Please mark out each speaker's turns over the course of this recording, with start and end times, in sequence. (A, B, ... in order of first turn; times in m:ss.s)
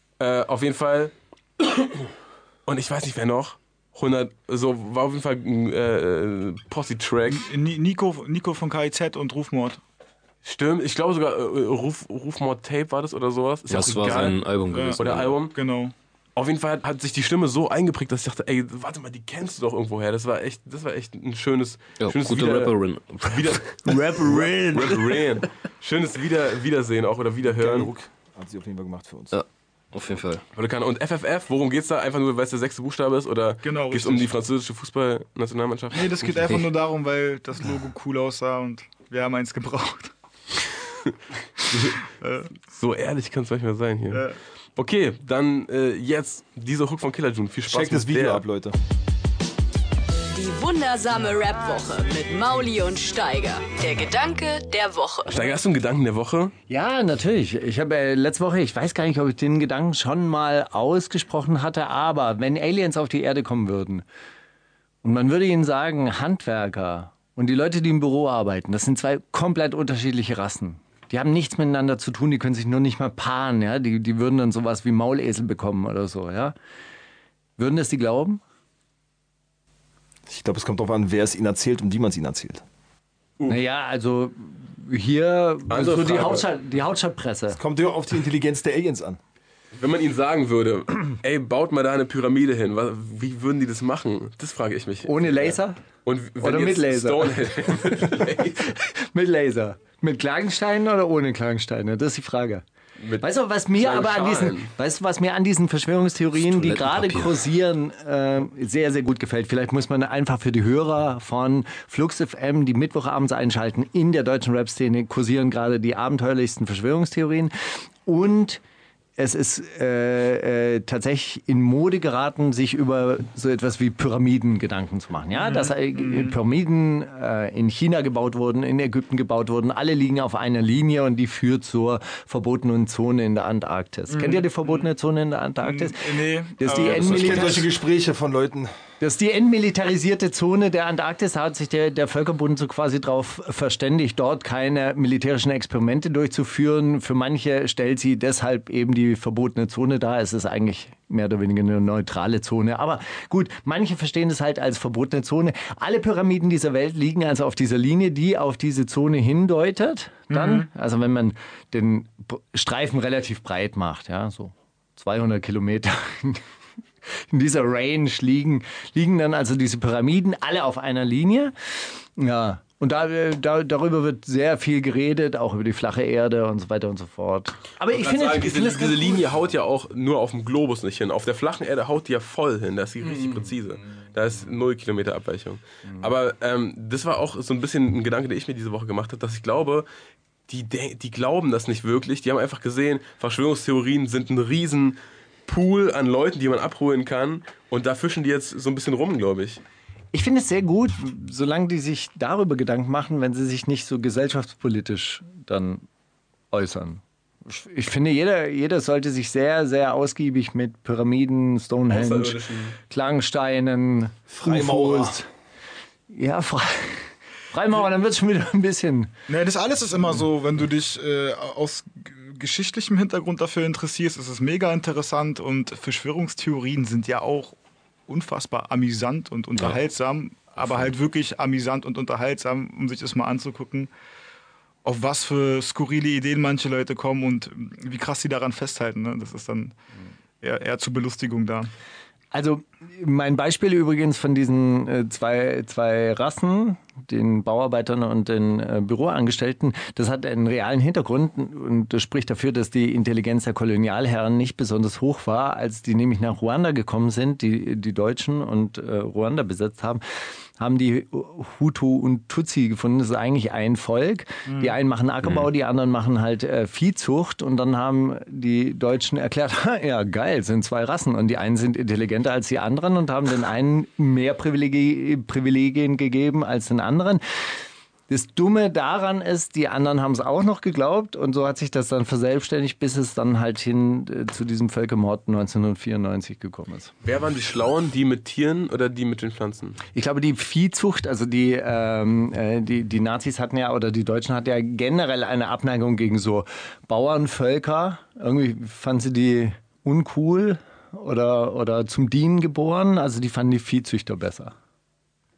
0:00.2-0:02.0 A
0:02.6-0:07.4 A
0:07.3-0:09.8 B
0:10.4-0:15.6 A
0:13.7-0:15.4 C
0:14.7-0:15.9 B
0:16.4-0:27.9 A
0:22.0-0:23.6 C
0:23.8-0:25.2 D
0:27.4-0:29.4 E
0:29.3-0:30.4 C
0:30.5-0:36.5 A
0:33.6-0:34.3 B
0:35.9-0:40.1 B
0:41.7-0:42.0 A
0:41.7-0:42.5 B
0:42.6-0:48.4 A
0:44.1-0:44.4 B
0:47.7-0:48.8 E
0:50.3-0:55.6 F
0:55.3-0:56.5 A
0:56.7-1:04.0 D
1:05.0-1:16.5 D
1:17.6-1:18.4 D
1:20.3-1:22.6 E
1:23.5-1:27.6 D
1:25.7-1:26.5 A
1:27.5-1:29.2 E
1:29.7-1:38.8 A
1:35.0-1:35.8 D
1:36.4-1:42.6 D
1:43.0-1:44.7 A
1:43.2-1:58.6 D
1:46.3-1:47.4 C
1:59.2-2:17.7 D
2:05.3-2:06.4 B
2:14.1-2:14.9 B
2:15.6-2:17.6 B
2:16.7-2:18.7 E
2:19.0-2:46.4 D
2:40.3-2:40.7 B
2:47.1-2:59.3 D
2:57.9-3:09.9 A
3:03.0-3:03.6 D
3:10.5-3:19.6 A
3:20.1-3:25.8 D
3:26.5-3:35.3 D
3:31.9-3:32.8 A
3:34.3-3:35.2 E
3:36.1-3:39.1 D
3:39.3-3:47.5 B
3:48.1-3:53.9 B
3:54.8-3:59.8 B
4:00.4-4:01.7 B
4:02.3-4:20.0 D
4:20.6-4:37.2 D
4:24.5-4:24.7 B
4:38.1-4:46.9 D
4:47.0-4:49.8 A
4:49.9-5:04.5 D